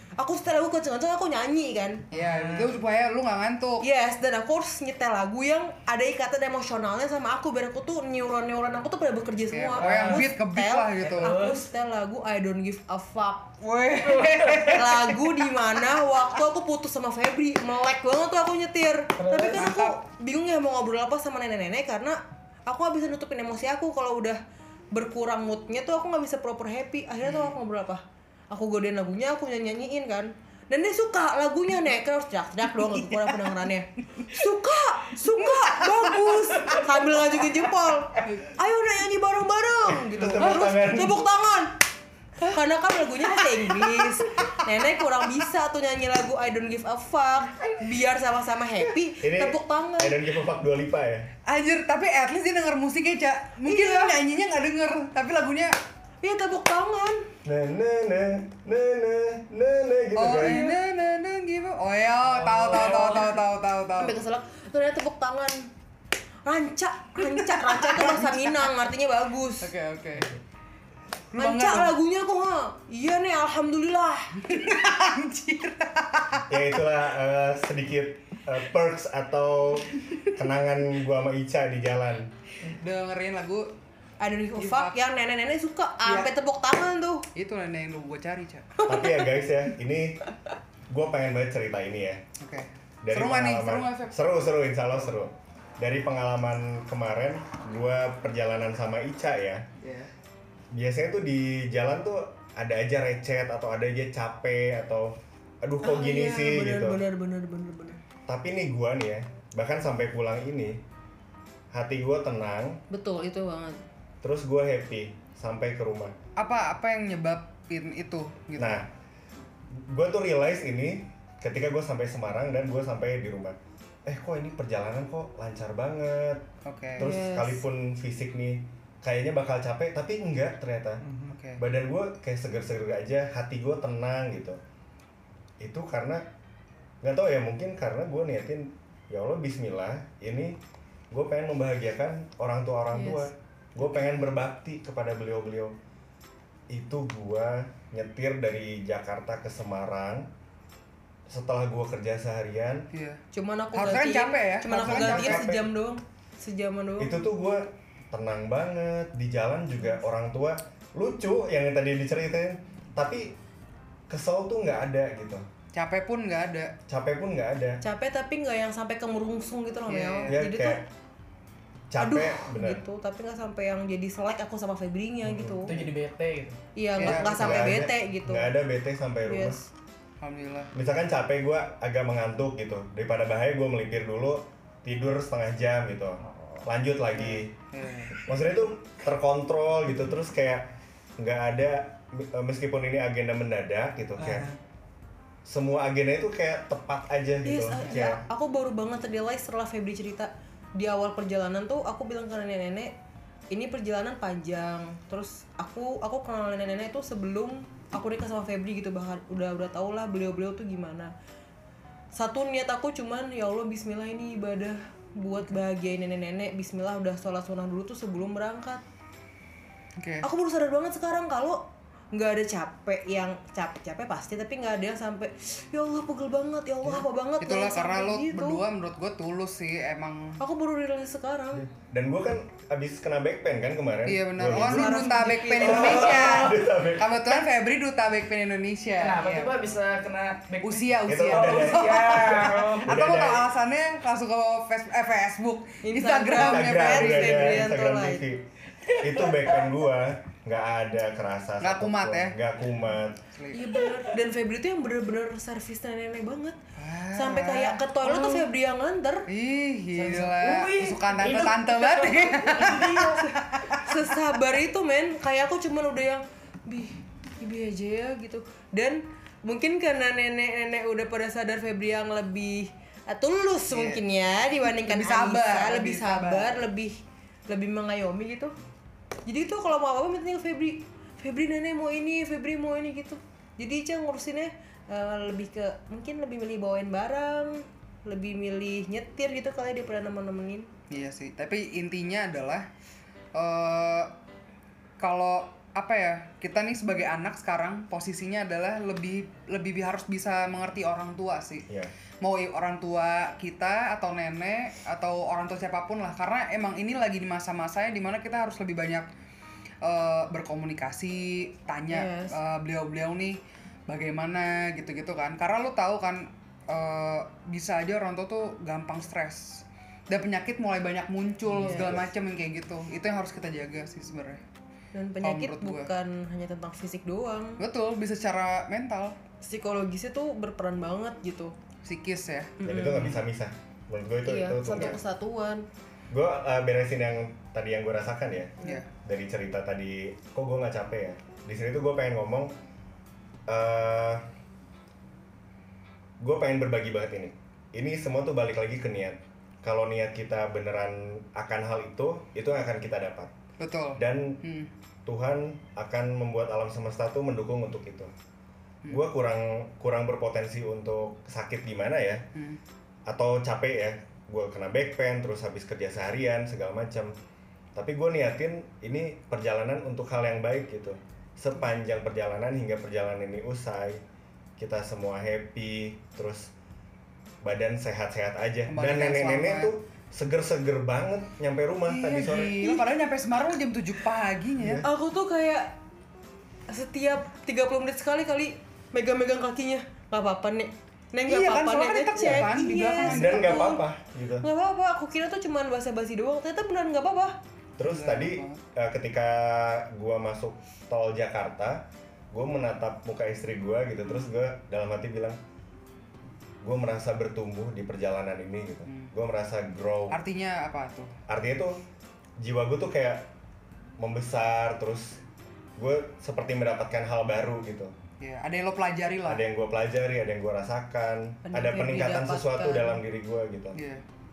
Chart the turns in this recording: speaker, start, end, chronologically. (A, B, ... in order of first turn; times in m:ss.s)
0:00.2-0:02.0 A
0:02.1-0:02.8 B
0:02.1-0:03.8 C
0:03.8-0:13.6 A
0:09.5-0:11.4 C
0:09.8-0:10.3 B
0:11.0-0:11.6 B
0:13.6-0:15.2 C
0:14.0-0:14.9 B
0:14.7-0:24.4 A
0:19.2-0:19.7 B
0:19.5-0:20.0 C
0:24.9-0:41.7 A
0:27.2-0:27.6 C
0:36.6-0:37.0 B
0:40.1-0:41.2 D
0:40.3-0:40.7 C
0:42.4-0:50.1 A
0:43.2-0:44.6 C
0:49.2-0:51.3 D
0:51.4-0:55.7 C
0:53.6-0:54.1 A
0:56.2-0:57.3 A
0:57.4-1:00.7 D
1:00.2-1:04.2 C
1:00.4-1:00.7 A
1:02.5-1:03.4 A
1:02.7-1:03.2 B
1:04.0-1:05.7 A
1:06.4-1:09.7 A
1:07.2-1:08.7 C
1:09.6-1:10.3 C
1:11.3-1:11.9 C
1:11.4-1:14.8 A
1:14.4-1:16.5 C
1:16.5-1:22.3 D
1:19.9-1:20.3 C
1:22.6-1:23.7 C
1:24.2-1:27.2 A
1:24.6-1:25.0 C
1:26.0-1:26.3 C
1:27.3-1:28.7 C
1:28.8-1:29.4 A
1:28.8-1:30.2 D
1:30.9-1:32.2 D
1:32.4-1:34.2 C
1:33.0-1:39.6 D
1:39.8-1:40.1 C
1:40.7-1:47.0 D
1:45.8-1:48.0 A
1:48.3-1:50.8 D
1:51.7-1:52.8 D
1:52.9-1:53.8 A
1:54.2-1:56.1 D
1:56.4-1:58.8 C
1:58.6-1:58.9 D
1:59.7-2:06.4 D
2:06.6-2:07.1 C
2:07.0-2:11.0 D
2:07.0-2:07.6 A
2:11.0-2:11.4 B
2:11.3-2:11.6 C
2:11.6-2:14.6 D
2:15.6-2:16.2 D
2:17.0-2:20.6 D
2:21.1-2:25.8 D
2:22.9-2:23.3 A
2:26.7-2:30.3 D
2:31.3-2:32.9 D
2:32.9-2:33.2 C
2:33.3-2:37.2 A
2:33.7-2:35.4 C
2:34.7-2:35.7 D
2:37.0-2:43.4 D
2:44.1-2:45.4 D
2:45.7-2:46.7 C
2:46.9-2:47.8 D
2:47.8-2:50.8 A
2:49.9-2:50.4 C
2:50.3-2:50.8 D
2:51.9-2:52.8 D
2:52.0-2:55.7 A
2:55.2-2:55.7 D
2:55.6-2:56.6 B
2:56.8-2:58.5 A
2:57.0-2:59.6 D
2:57.0-2:57.8 C
2:59.2-2:59.7 A
3:00.2-3:00.7 C
3:00.7-3:07.5 D
3:06.3-3:06.6 B
3:07.1-3:08.2 C
3:08.2-3:14.5 D
3:14.2-3:14.6 B
3:15.4-3:18.2 D
3:17.4-3:22.9 A
3:17.8-3:18.1 C
3:23.5-3:31.1 A
3:32.1-3:38.8 A
3:40.0-3:40.2 C
3:40.2-3:41.6 A
3:42.1-3:48.6 A
3:47.4-3:50.4 C
3:50.4-3:51.7 A
3:51.5-3:57.4 D
3:54.0-3:59.6 C
3:54.4-3:56.2 A
3:55.7-3:56.5 B
3:59.0-4:03.2 B
4:00.6-4:07.7 C
4:01.0-4:03.5 D
4:05.8-4:08.2 A
4:06.3-4:08.4 D
4:08.8-4:09.8 B
4:09.0-4:13.2 D
4:11.6-4:12.4 C
4:13.2-4:13.6 C
4:13.5-4:16.6 A
4:13.7-4:14.1 B
4:16.8-4:17.8 C
4:17.1-4:19.3 A
4:18.0-4:18.5 B
4:19.3-4:23.8 C
4:20.0-4:20.6 A
4:20.2-4:23.3 B
4:21.3-4:37.0 A
4:33.7-4:34.0 C
4:34.6-4:36.6 C
4:37.5-4:38.5 A
4:39.2-4:50.7 A
4:50.9-4:52.6 C
4:53.3-4:54.1 C
4:55.0-5:01.6 C
5:02.2-5:09.0 C
5:09.8-5:24.4 C
5:11.9-5:12.4 A
5:21.5-5:21.9 B
5:21.6-5:22.0 A
5:21.7-5:22.1 D
5:24.9-5:27.6 A
5:25.2-5:25.9 C
5:27.6-5:29.2 C
5:29.4-5:31.5 A
5:31.8-5:32.5 C
5:32.6-5:35.0 D
5:32.6-5:33.2 A
5:34.2-5:35.7 A
5:36.1-5:42.5 D
5:43.5-5:44.2 D
5:46.2-5:53.3 D
5:53.6-5:54.7 C
5:54.0-5:54.4 D
5:55.0-5:58.1 D
5:58.9-6:02.2 D
6:02.3-6:02.6 C
6:03.1-6:07.1 D
6:07.7-6:14.0 D
6:14.6-6:16.5 D
6:17.4-6:22.9 D
6:18.7-6:19.7 C
6:21.9-6:24.8 C
6:24.6-6:24.9 D
6:24.8-6:25.7 A
6:26.7-6:33.8 A
6:31.3-6:33.7 C
6:32.2-6:32.4 D
6:33.0-6:34.5 D
6:34.4-6:37.4 A
6:37.8-6:45.4 D
6:37.8-6:38.6 C
6:46.6-6:50.2 D
6:48.9-6:49.1 C
6:50.1-6:51.1 C
6:51.3-6:51.8 D
6:52.4-6:53.3 D
6:54.0-6:55.2 D
6:55.8-6:57.9 D
6:58.2-6:59.4 C
6:59.2-7:03.8 D
7:01.5-7:03.0 A
7:03.7-7:04.0 C